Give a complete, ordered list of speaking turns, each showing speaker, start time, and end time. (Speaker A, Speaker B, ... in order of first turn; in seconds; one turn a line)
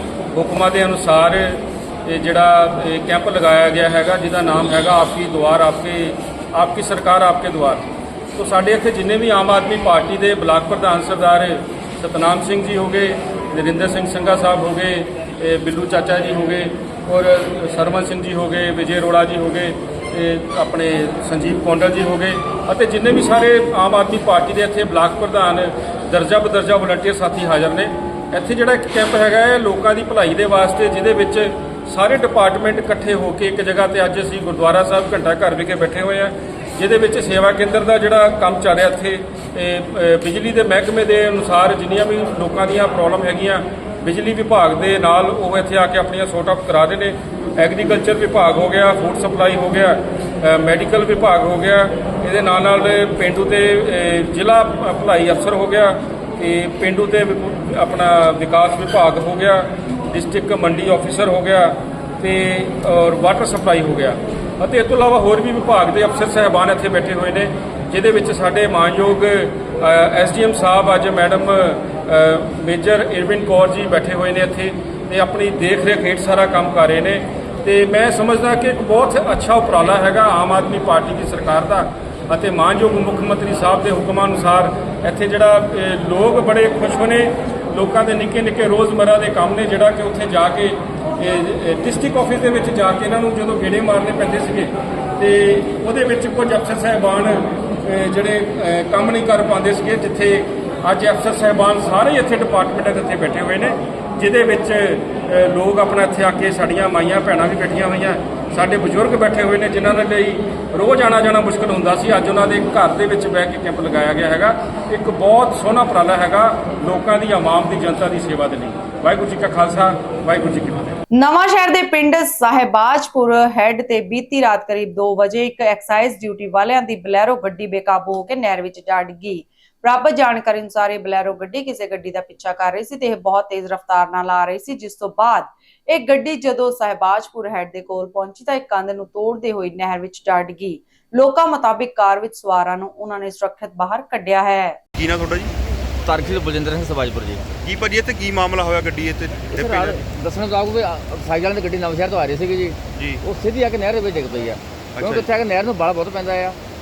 Speaker A: 0.3-121.0
Speaker B: 121.2-144.8
Speaker C: 144.9-145.5
Speaker D: 146.1-147.5
Speaker C: 147.6-150.0
Speaker D: 149.5-156.6
Speaker C: 153.0-153.2
Speaker C: 155.0-155.3